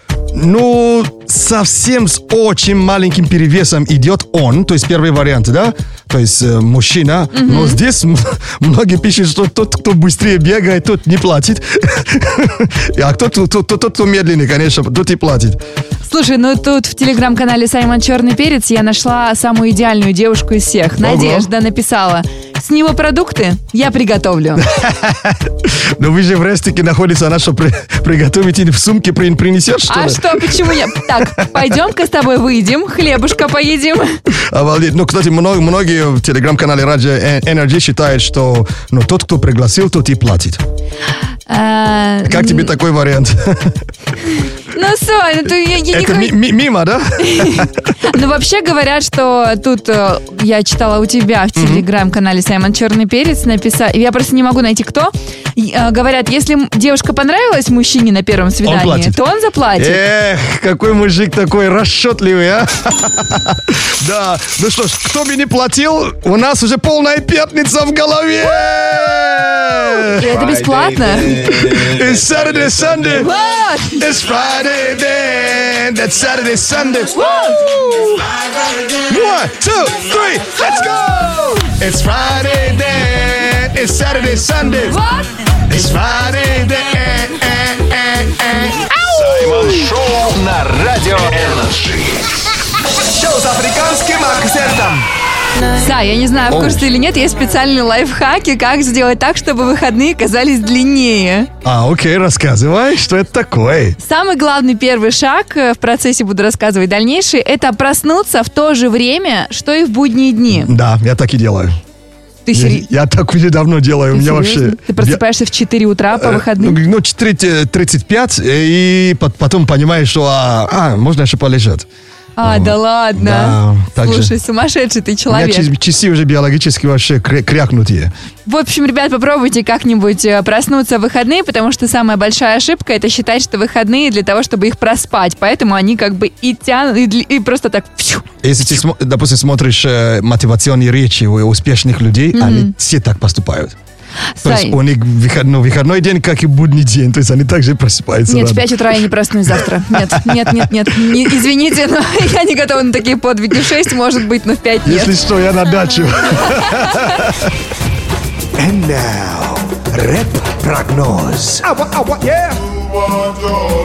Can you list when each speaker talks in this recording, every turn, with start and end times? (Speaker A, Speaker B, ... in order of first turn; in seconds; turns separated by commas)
Speaker A: 0.3-15.6, Speaker B: 7.3-7.8, Speaker B: 16.1-24.7, Speaker A: 21.0-21.5, Speaker A: 24.6-31.7, Speaker B: 29.9-34.2, Speaker A: 34.5-40.6, Speaker B: 41.5-42.7, Speaker A: 42.3-43.8, Speaker B: 44.7-46.4, Speaker A: 45.9-47.9, Speaker B: 47.2-60.0, Speaker A: 51.6-51.9, Speaker A: 58.6-59.1, Speaker A: 59.8-70.5, Speaker B: 69.8-71.8, Speaker A: 71.3-73.3, Speaker B: 73.1-74.0, Speaker A: 74.0-78.3, Speaker B: 77.1-77.6, Speaker A: 79.1-85.0, Speaker B: 84.9-85.3, Speaker A: 85.7-89.7, Speaker C: 89.1-92.3, Speaker D: 93.1-95.0, Speaker B: 95.8-101.5, Speaker A: 96.5-96.8, Speaker A: 101.6-104.0, Speaker B: 104.0-110.7, Speaker A: 110.5-111.8, Speaker B: 112.5-112.9, Speaker A: 112.5-115.2, Speaker B: 114.1-116.8, Speaker A: 116.1-121.9, Speaker B: 122.4-125.7, Speaker A: 122.4-124.3, Speaker A: 125.3-128.1, Speaker B: 128.5-138.2, Speaker A: 138.4-143.7, Speaker B: 142.3-142.7, Speaker B: 144.4-144.8, Speaker A: 144.4-148.8, Speaker B: 148.3-155.2, Speaker A: 149.9-151.2, Speaker A: 154.8-157.5, Speaker B: 156.4-157.2, Speaker E: 158.6-161.7, Speaker D: 162.2-162.5